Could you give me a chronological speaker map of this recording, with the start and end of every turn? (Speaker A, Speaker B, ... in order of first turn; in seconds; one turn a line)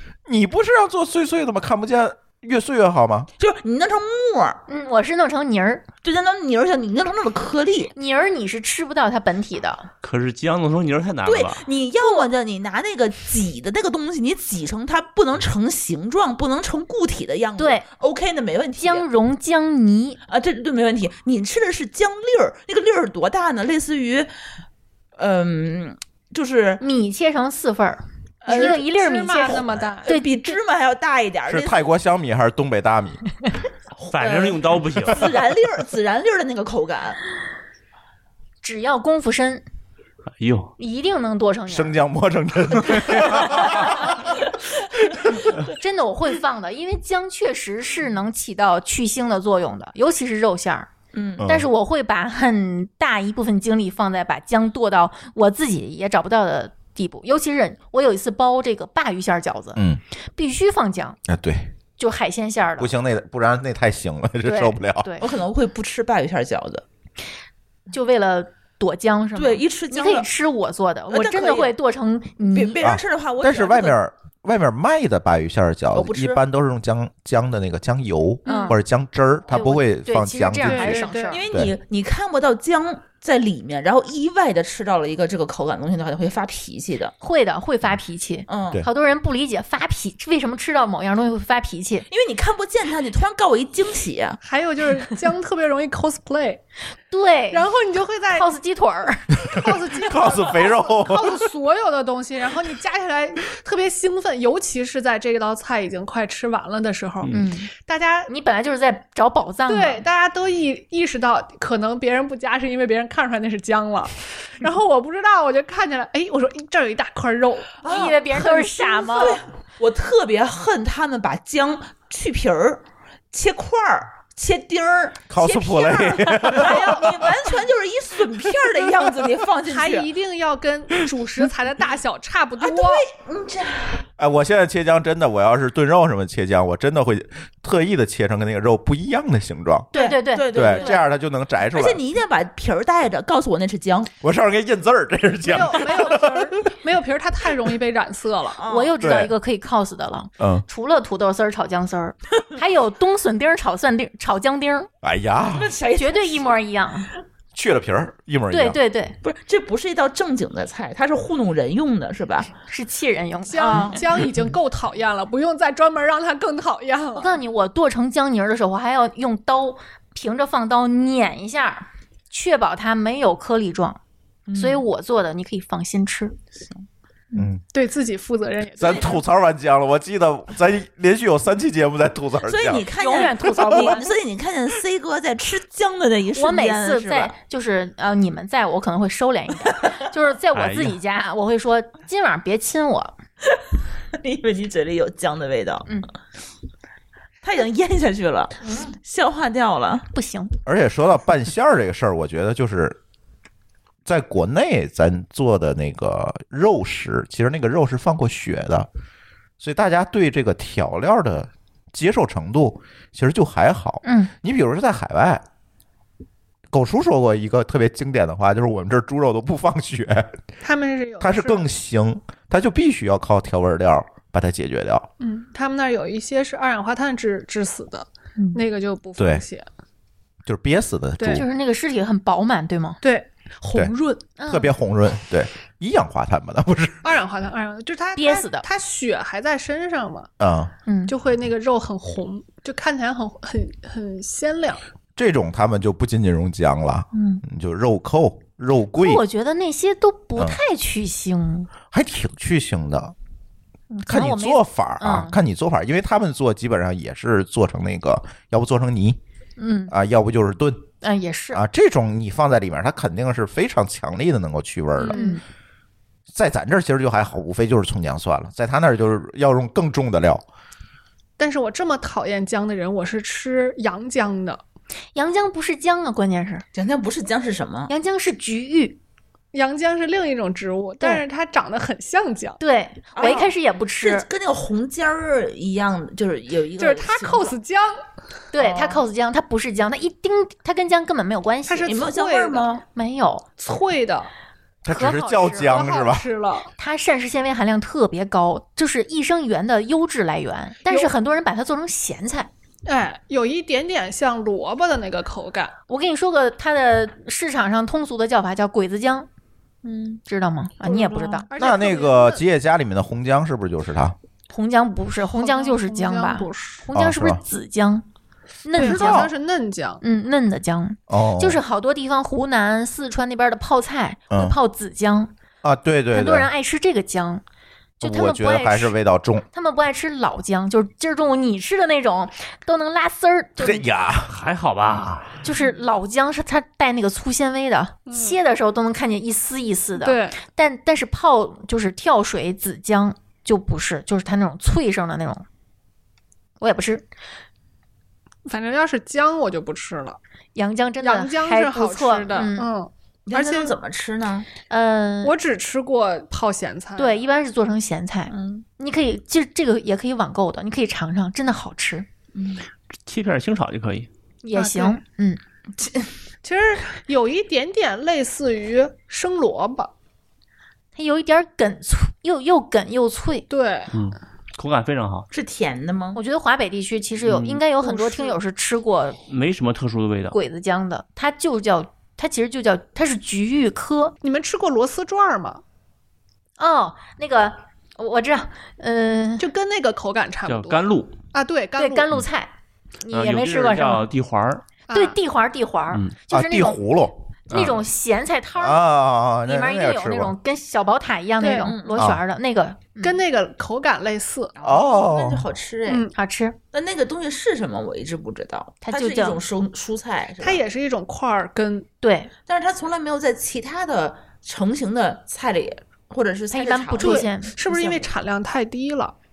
Speaker A: 0.3-3.3
Speaker B: 3.4-4.6
Speaker C: 4.7-5.8
Speaker B: 6.0-7.9
Speaker C: 8.0-9.9
Speaker D: 10.0-11.6
Speaker B: 11.2-19.1
Speaker C: 12.0-12.3
Speaker C: 17.6-17.9
Speaker C: 18.8-20.2
Speaker B: 20.3-24.3
Speaker B: 25.2-26.8
Speaker C: 26.8-30.6
Speaker B: 28.4-28.8
Speaker E: 28.5-30.1
Speaker B: 30.0-31.8
Speaker A: 31.5-33.2
Speaker B: 34.0-37.2
Speaker D: 34.0-35.3
Speaker C: 38.6-39.6
Speaker D: 40.4-40.7
Speaker C: 40.8-42.0
Speaker A: 41.7-44.2
Speaker B: 43.5-44.3
Speaker A: 45.1-45.4
Speaker B: 45.5-45.8
Speaker C: 45.6-50.9
Speaker B: 51.1-51.5
Speaker A: 51.4-51.7
Speaker C: 51.4-59.8
Speaker A: 59.8-60.0
Speaker C: 60.4-61.2
Speaker A: 61.3-61.7
Speaker C: 62.0-62.9
Speaker A: 62.8-65.1
Speaker C: 64.4-65.3
Speaker B: 65.2-66.8
Speaker C: 67.9-72.8
Speaker B: 69.3-70.3
Speaker B: 71.1-71.8
Speaker B: 72.5-74.0
Speaker A: 72.8-81.7
Speaker B: 75.9-76.4
Speaker E: 78.5-78.8
Speaker C: 78.5-78.8
Speaker C: 79.5-81.5
Speaker E: 80.6-81.5
Speaker B: 81.3-87.2
Speaker C: 87.2-92.1
Speaker B: 88.5-88.8
Speaker B: 92.1-94.4
Speaker E: 94.4-96.6
Speaker C: 97.1-97.7
Speaker E: 97.5-98.5
Speaker C: 98.3-99.3
Speaker E: 99.5-108.3
Speaker A: 100.0-101.5
Speaker C: 107.3-107.7
Speaker C: 108.3-110.0
Speaker E: 109.7-118.0
Speaker B: 117.8-130.1
Speaker C: 117.8-119.4
Speaker A: 125.3-127.4
Speaker E: 129.7-133.1
Speaker B: 132.6-134.1
Speaker A: 134.2-139.9
Speaker C: 139.9-141.0
Speaker B: 139.9-141.0
Speaker A: 140.5-142.0
Speaker B: 141.7-144.1
Speaker A: 144.2-146.7
Speaker E: 145.4-148.6
Speaker B: 148.6-149.0
Speaker C: 148.7-154.9
Speaker A: 149.0-149.3
Speaker A: 150.4-150.7
Speaker A: 155.0-155.7
Speaker B: 155.5-156.5
Speaker C: 155.9-157.1
Speaker A: 157.5-158.8
Speaker C: 158.5-159.2
Speaker B: 159.2-162.5
Speaker C: 162.7-164.0
Speaker E: 163.5-167.4
Speaker B: 163.6-164.2
Speaker C: 167.2-174.0
Speaker B: 174.5-174.8
Speaker C: 174.6-176.4
Speaker A: 177.3-177.6
Speaker E: 177.7-179.2
Speaker A: 178.8-182.9
Speaker B: 182.4-187.3
Speaker C: 183.0-184.1
Speaker C: 186.3-193.2
Speaker D: 190.5-191.0
Speaker B: 194.2-195.9
Speaker B: 197.4-200.1
Speaker C: 200.1-200.6
Speaker A: 200.7-203.0
Speaker A: 204.1-208.9
Speaker A: 209.6-215.4
Speaker C: 214.0-214.3
Speaker A: 216.7-220.4
Speaker E: 220.6-221.7
Speaker A: 221.2-225.1
Speaker E: 225.2-229.7
Speaker C: 228.4-228.6
Speaker A: 229.2-229.4
Speaker A: 230.5-231.4
Speaker E: 231.2-231.4
Speaker C: 231.3-233.0
Speaker E: 233.0-234.2
Speaker C: 234.4-234.7
Speaker A: 234.5-237.1
Speaker E: 237.0-240.3
Speaker C: 238.2-238.7
Speaker A: 240.4-240.7
Speaker C: 240.9-241.1
Speaker E: 241.1-244.8
Speaker A: 245.2-249.2
Speaker C: 247.1-247.4
Speaker C: 248.9-251.7
Speaker A: 251.9-253.1
Speaker C: 253.9-255.4
Speaker A: 254.1-259.2
Speaker C: 259.6-259.9
Speaker A: 259.9-260.9
Speaker C: 261.0-261.6
Speaker A: 261.5-265.2
Speaker E: 265.0-265.4
Speaker C: 265.1-265.4
Speaker A: 266.3-270.4
Speaker E: 271.4-274.6
Speaker C: 275.1-276.6
Speaker B: 276.7-277.9
Speaker C: 277.9-279.0
Speaker E: 279.5-282.6
Speaker C: 282.6-284.3
Speaker B: 283.1-287.6
Speaker E: 286.8-288.0
Speaker C: 288.5-292.1
Speaker B: 288.6-289.0
Speaker E: 291.7-292.7
Speaker B: 291.9-292.8
Speaker C: 292.9-293.5
Speaker E: 293.6-294.3
Speaker A: 294.8-296.3
Speaker C: 294.9-295.8
Speaker E: 295.6-296.7
Speaker C: 296.8-302.5
Speaker E: 300.9-301.1
Speaker E: 302.9-305.7
Speaker C: 305.9-309.3
Speaker C: 309.9-311.5
Speaker E: 310.9-312.4
Speaker A: 311.6-314.2
Speaker C: 314.5-318.1
Speaker E: 315.2-316.8
Speaker A: 316.9-317.4
Speaker C: 318.6-319.3
Speaker A: 318.7-319.3
Speaker E: 318.8-320.0
Speaker C: 320.0-325.3
Speaker A: 321.1-321.6
Speaker A: 324.3-324.6
Speaker A: 325.6-326.5
Speaker C: 326.1-327.4
Speaker C: 328.0-329.0
Speaker A: 328.0-329.5
Speaker C: 329.5-333.9
Speaker A: 333.6-334.3
Speaker D: 334.3-335.4
Speaker C: 335.4-345.4
Speaker E: 338.1-338.4
Speaker E: 340.0-340.4
Speaker C: 346.6-347.1
Speaker E: 348.5-350.2
Speaker C: 350.6-352.7
Speaker E: 351.0-353.8
Speaker B: 353.3-354.5
Speaker C: 354.7-355.4
Speaker E: 355.2-357.2
Speaker C: 357.0-362.1
Speaker B: 358.3-358.7
Speaker B: 362.3-362.7
Speaker D: 363.1-364.1
Speaker C: 364.4-365.4
Speaker E: 364.6-365.0
Speaker B: 365.8-366.1
Speaker E: 366.4-369.9
Speaker C: 371.0-373.5
Speaker E: 373.5-373.9
Speaker D: 373.9-375.3
Speaker B: 375.3-376.2
Speaker C: 376.1-379.2
Speaker D: 377.2-377.6
Speaker E: 377.8-378.4
Speaker D: 379.3-380.4
Speaker C: 380.3-384.1
Speaker E: 384.2-385.6
Speaker C: 386.6-389.5
Speaker E: 389.4-392.1
Speaker D: 390.5-391.2
Speaker C: 391.8-392.5
Speaker C: 393.0-394.1
Speaker D: 393.1-394.6
Speaker E: 394.9-395.2
Speaker C: 394.9-396.8
Speaker A: 396.3-397.2
Speaker C: 397.5-398.8
Speaker D: 397.5-397.8
Speaker A: 398.6-400.4
Speaker C: 399.4-403.2
Speaker E: 401.4-401.7
Speaker B: 401.6-402.1
Speaker A: 402.0-402.2
Speaker E: 403.0-404.5
Speaker B: 404.6-406.1
Speaker A: 404.6-405.5
Speaker E: 405.9-406.1
Speaker C: 406.1-406.6
Speaker B: 406.7-410.6
Speaker C: 408.8-409.4
Speaker E: 410.4-411.9
Speaker C: 412.0-412.3
Speaker B: 412.5-418.1
Speaker C: 416.5-417.5
Speaker E: 417.0-419.1